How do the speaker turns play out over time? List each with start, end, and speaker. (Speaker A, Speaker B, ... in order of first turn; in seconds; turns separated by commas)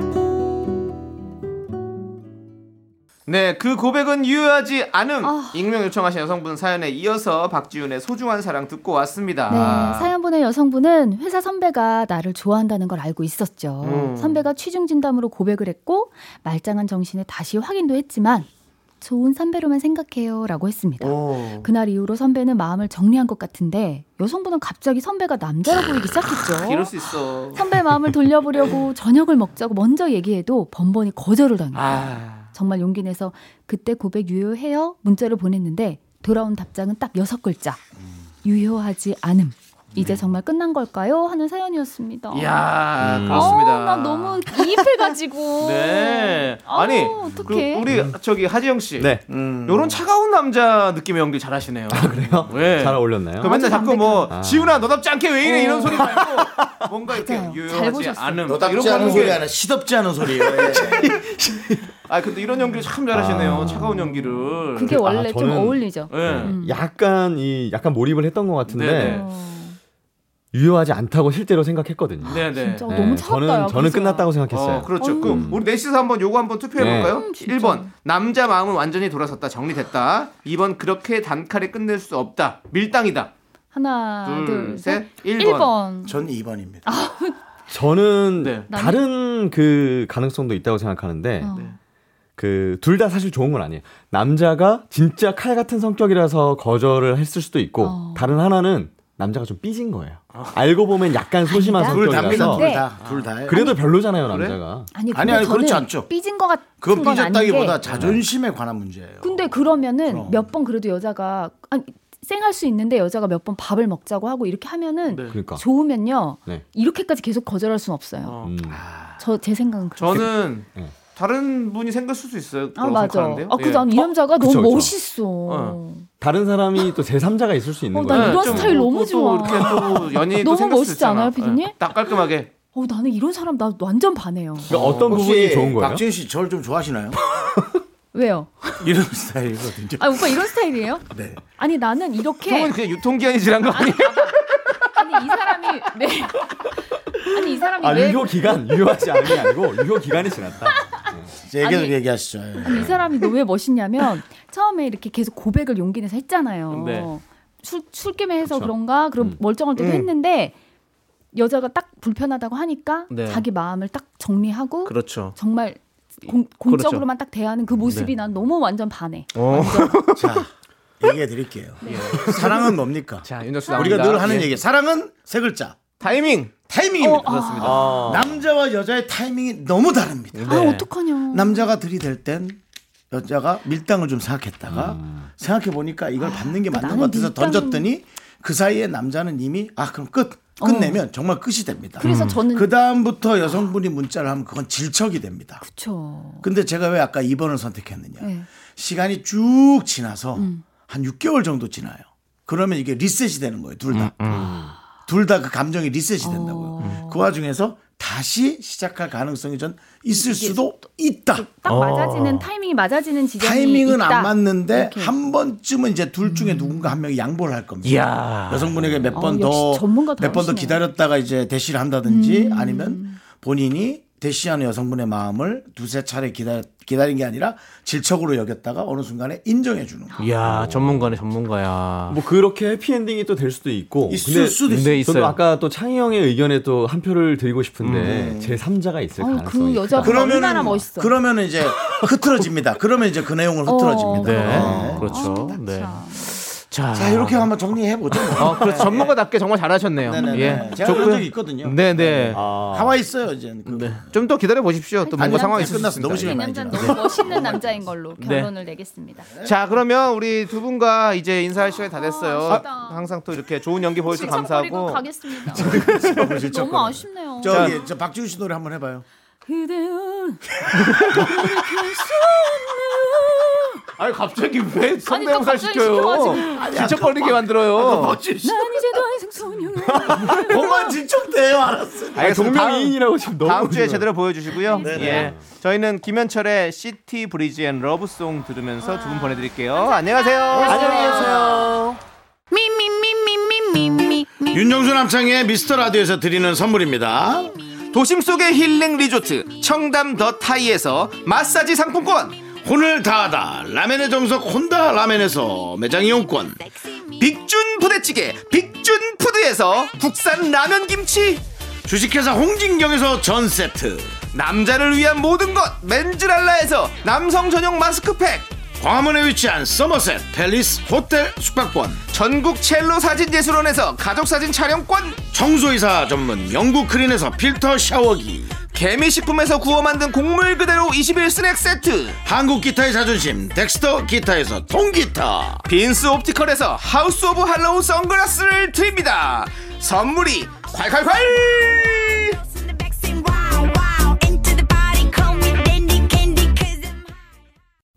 Speaker A: 3.3-10.1, Speaker B: 5.2-5.6, Speaker B: 9.5-18.5, Speaker A: 13.8-14.4, Speaker B: 19.0-26.9, Speaker A: 21.0-21.7, Speaker A: 26.5-27.6, Speaker B: 27.5-37.8, Speaker A: 31.7-32.5, Speaker B: 38.4-42.7, Speaker A: 42.3-44.5, Speaker C: 43.0-43.6, Speaker B: 43.3-47.9, Speaker A: 45.6-59.4, Speaker C: 47.9-48.1, Speaker C: 49.0-49.2, Speaker D: 49.3-50.0, Speaker C: 51.9-53.5, Speaker B: 53.4-54.3, Speaker C: 54.3-55.0, Speaker B: 55.4-56.2, Speaker C: 56.4-56.7, Speaker B: 57.1-59.4, Speaker D: 58.5-61.2, Speaker C: 60.5-61.8, Speaker A: 62.0-65.0, Speaker C: 63.1-64.1, Speaker B: 64.7-66.8, Speaker C: 64.9-69.2, Speaker A: 66.1-66.5, Speaker A: 68.7-69.2, Speaker B: 69.0-69.8, Speaker C: 70.5-75.6, Speaker A: 72.2-72.9, Speaker B: 72.2-74.3, Speaker A: 74.5-83.3, Speaker B: 75.0-75.6, Speaker C: 76.8-77.2, Speaker B: 76.8-77.9, Speaker B: 83.7-86.2, Speaker A: 84.2-85.7, Speaker D: 86.0-86.8, Speaker B: 86.8-87.4, Speaker C: 87.7-91.5, Speaker A: 88.4-88.7, Speaker B: 88.7-89.0, Speaker B: 91.4-91.8, Speaker A: 91.5-91.8, Speaker C: 92.4-102.7, Speaker B: 97.8-98.4, Speaker B: 101.4-103.0, Speaker D: 101.9-103.8, Speaker A: 103.0-103.3, Speaker C: 103.5-104.9, Speaker A: 104.3-104.6, Speaker B: 104.9-107.9, Speaker D: 105.1-106.1, Speaker D: 106.8-110.5, Speaker A: 107.8-108.2, Speaker C: 107.9-108.2, Speaker B: 109.2-118.4, Speaker A: 115.1-115.4, Speaker C: 115.3-115.6, Speaker A: 118.2-119.2, Speaker C: 118.4-118.8, Speaker B: 119.2-120.3, Speaker A: 120.0-124.1, Speaker B: 122.8-126.1, Speaker C: 124.4-124.9, Speaker A: 125.5-125.8, Speaker C: 126.2-128.8, Speaker B: 127.9-132.1, Speaker A: 128.1-132.5, Speaker B: 132.7-134.7, Speaker D: 134.7-137.2, Speaker C: 134.7-136.0, Speaker B: 138.1-138.9, Speaker D: 138.8-140.4, Speaker B: 140.0-142.7, Speaker D: 141.1-141.4, Speaker A: 142.4-144.3, Speaker B: 143.7-146.6, Speaker B: 147.2-149.6, Speaker C: 147.8-150.8, Speaker B: 150.7-151.9, Speaker D: 151.4-153.0, Speaker B: 152.6-160.6, Speaker A: 156.7-157.1, Speaker C: 158.4-159.4, Speaker A: 159.8-160.1, Speaker B: 161.3-170.1, Speaker A: 163.1-163.4, Speaker A: 164.8-165.4, Speaker A: 166.7-167.0, Speaker A: 167.8-168.1, Speaker A: 169.3-170.4, Speaker D: 170.1-175.8, Speaker B: 171.8-172.7, Speaker A: 171.8-174.6, Speaker B: 173.6-174.3, Speaker A: 176.0-176.5, Speaker D: 176.7-180.8, Speaker B: 177.0-178.1, Speaker A: 177.1-178.0, Speaker C: 177.6-178.3, Speaker A: 180.3-180.9, Speaker B: 180.5-181.7, Speaker D: 181.3-182.6, Speaker D: 183.1-195.6, Speaker C: 184.7-185.3, Speaker B: 186.2-187.9, Speaker B: 190.6-191.0, Speaker B: 192.0-192.8, Speaker A: 192.0-192.4, Speaker B: 195.6-196.5, Speaker D: 196.4-204.4, Speaker B: 198.2-198.5, Speaker B: 200.3-200.6, Speaker A: 203.9-204.5, Speaker C: 204.3-204.7, Speaker D: 205.1-211.5, Speaker B: 206.2-207.3, Speaker B: 210.1-210.8, Speaker B: 211.3-215.2, Speaker A: 211.6-212.5, Speaker D: 213.4-230.1, Speaker B: 216.2-216.9, Speaker A: 217.8-218.9, Speaker B: 219.1-220.8, Speaker B: 222.0-223.2, Speaker A: 230.2-232.2, Speaker C: 230.4-231.2, Speaker C: 232.1-240.3, Speaker D: 234.1-235.0, Speaker A: 234.7-235.4, Speaker A: 237.8-238.1, Speaker D: 237.9-238.6, Speaker B: 239.2-241.2, Speaker D: 240.0-245.2, Speaker B: 243.6-246.4, Speaker A: 244.1-247.5, Speaker C: 244.5-245.1, Speaker D: 246.9-249.1, Speaker A: 248.3-252.4, Speaker D: 250.0-254.1, Speaker B: 250.1-251.0, Speaker C: 252.3-253.0, Speaker A: 253.7-256.4, Speaker B: 255.0-259.3, Speaker D: 255.2-257.9, Speaker A: 258.2-258.5, Speaker A: 259.4-266.2, Speaker B: 261.9-263.1, Speaker B: 264.1-267.9, Speaker D: 265.5-269.0, Speaker A: 267.4-267.8, Speaker B: 269.4-273.8, Speaker A: 270.9-271.2, Speaker A: 274.0-278.2, Speaker B: 275.1-276.7, Speaker D: 276.4-279.0, Speaker B: 278.4-281.0, Speaker D: 280.1-282.4, Speaker C: 282.1-284.1, Speaker A: 282.1-291.6, Speaker B: 284.5-285.3, Speaker D: 284.8-285.3, Speaker B: 288.8-291.3, Speaker D: 290.5-291.9, Speaker C: 290.7-291.9, Speaker D: 294.4-297.5, Speaker A: 297.9-302.4, Speaker D: 302.6-306.6, Speaker A: 307.2-311.4, Speaker D: 311.9-314.1, Speaker A: 314.3-318.5, Speaker D: 318.8-322.0, Speaker A: 322.1-325.3, Speaker D: 325.3-328.6, Speaker A: 328.7-332.2, Speaker D: 332.2-335.6, Speaker A: 335.6-342.4